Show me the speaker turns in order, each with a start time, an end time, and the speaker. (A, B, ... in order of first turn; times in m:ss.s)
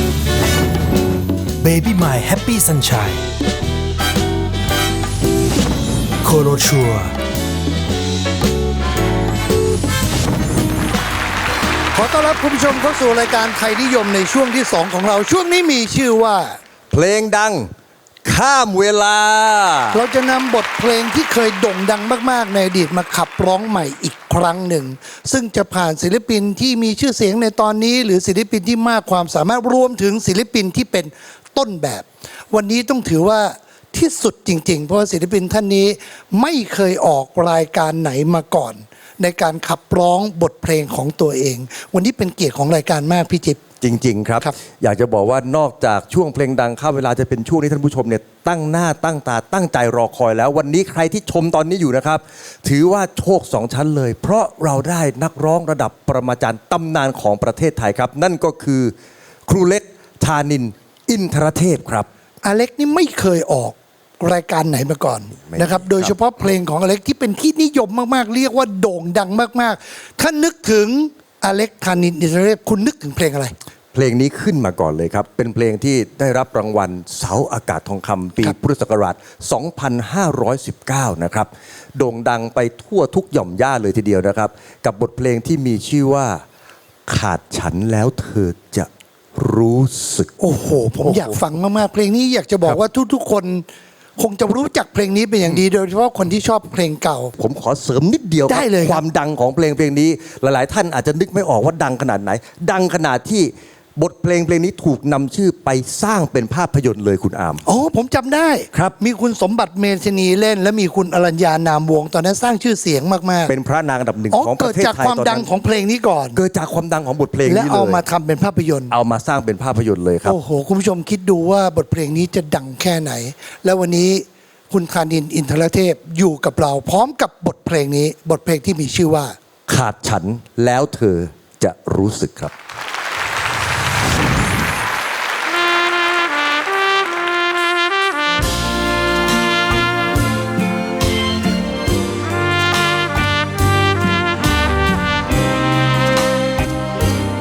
0:01.6-0:03.2 A
0:06.2-0:07.1 A
0:11.9-0:16.6 B
0:16.9-0:17.7 C
0:18.2-0:20.0 C
0:19.9-0:43.6 B
0:43.8-0:58.9 C
0:59.5-1:02.1 C
1:02.4-1:13.5 B
1:05.4-1:06.1 C
1:13.9-1:26.4 C
1:27.1-1:30.3 C
1:30.4-1:33.6 B
1:31.0-1:31.4 C
1:34.2-1:37.3 B
1:37.4-1:47.6 C
1:38.4-1:39.0 B
1:47.6-1:53.5 B
1:53.5-1:55.5 C
1:54.3-1:56.4 B
1:56.3-1:58.0 C
1:57.4-1:58.9 B
1:58.9-2:00.4 C
2:00.2-2:09.3 B
2:09.7-2:12.5 C